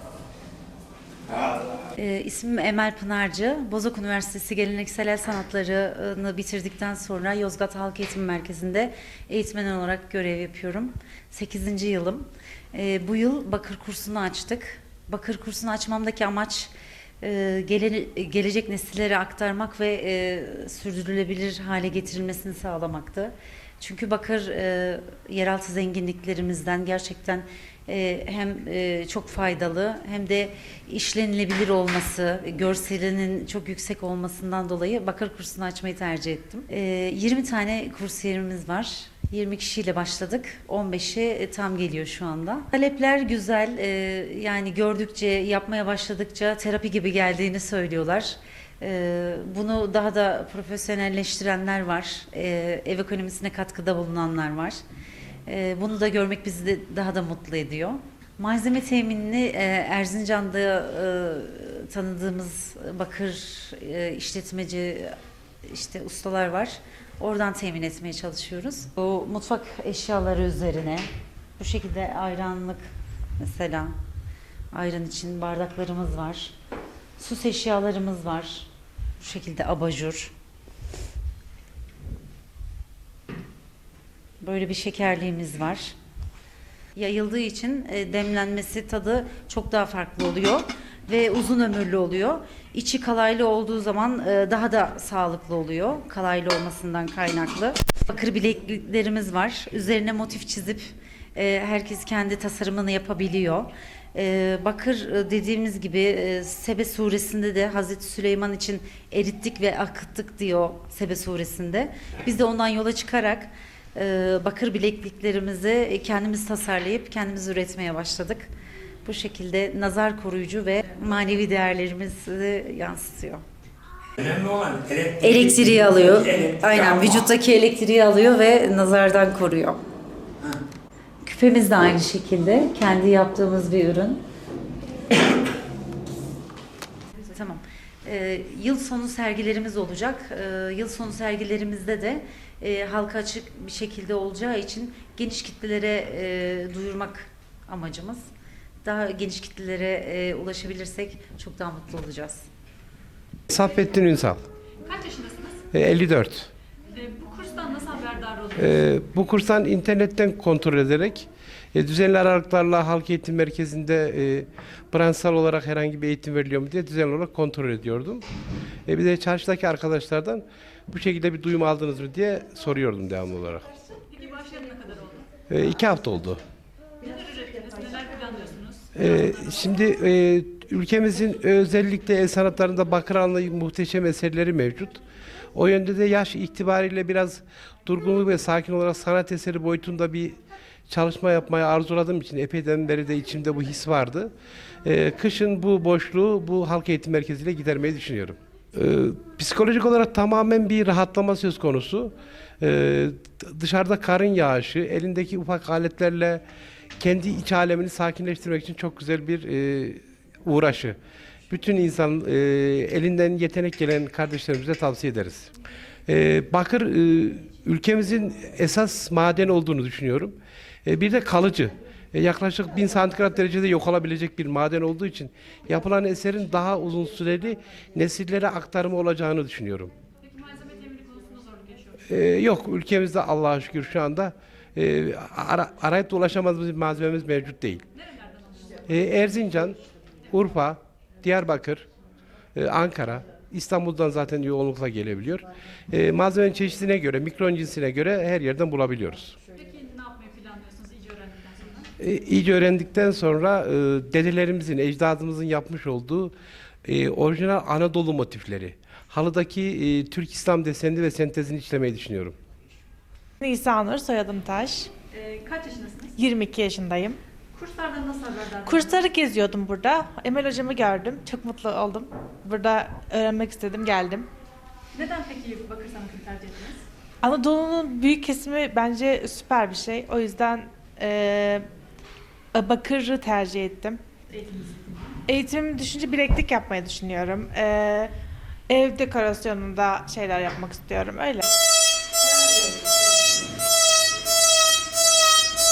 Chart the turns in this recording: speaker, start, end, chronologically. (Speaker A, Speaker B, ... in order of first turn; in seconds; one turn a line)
Speaker A: 1.3-1.9
Speaker B: 2.0-54.8
Speaker B: 55.5-71.1
Speaker B: 71.6-72.8
Speaker B: 73.4-73.9
Speaker B: 74.7-76.5
Speaker B: 77.2-78.7
Speaker B: 79.2-80.3
Speaker B: 84.4-86.0
Speaker B: 87.0-118.5
Speaker B: 119.0-123.4
Speaker A: 124.2-127.3
Speaker B: 125.2-129.8
Speaker B: 131.2-134.2
Speaker B: 137.2-148.2
Speaker B: 148.8-152.4
Speaker C: 153.5-154.4
Speaker D: 154.8-155.6
Speaker C: 155.7-156.5
Speaker D: 156.9-158.8
Speaker C: 158.6-168.3
Speaker C: 168.9-173.7
Speaker D: 174.0-175.3
Speaker C: 175.5-176.4
Speaker D: 177.0-179.3
Speaker C: 178.9-185.0
Speaker C: 185.5-190.4
Speaker C: 190.9-194.3
Speaker C: 194.8-206.4
Speaker C: 207.0-211.0
Speaker C: 211.5-215.5
Speaker C: 216.1-229.9
Speaker D: 230.2-232.1
Speaker C: 232.1-237.8
Speaker D: 237.9-238.9
Speaker C: 238.8-239.8
Speaker C: 240.3-241.9
Speaker C: 242.6-249.4
Speaker D: 249.5-251.9
Speaker C: 252.0-262.4
Speaker E: 263.4-264.9
Speaker D: 265.1-266.3
Speaker E: 266.2-267.2
Speaker D: 267.5-269.1
Speaker E: 268.7-274.3
Speaker D: 274.9-276.9
Speaker E: 277.2-281.6
Speaker E: 282.6-284.0
Speaker D: 284.3-285.2
Speaker E: 285.3-288.1
Speaker E: 288.7-291.4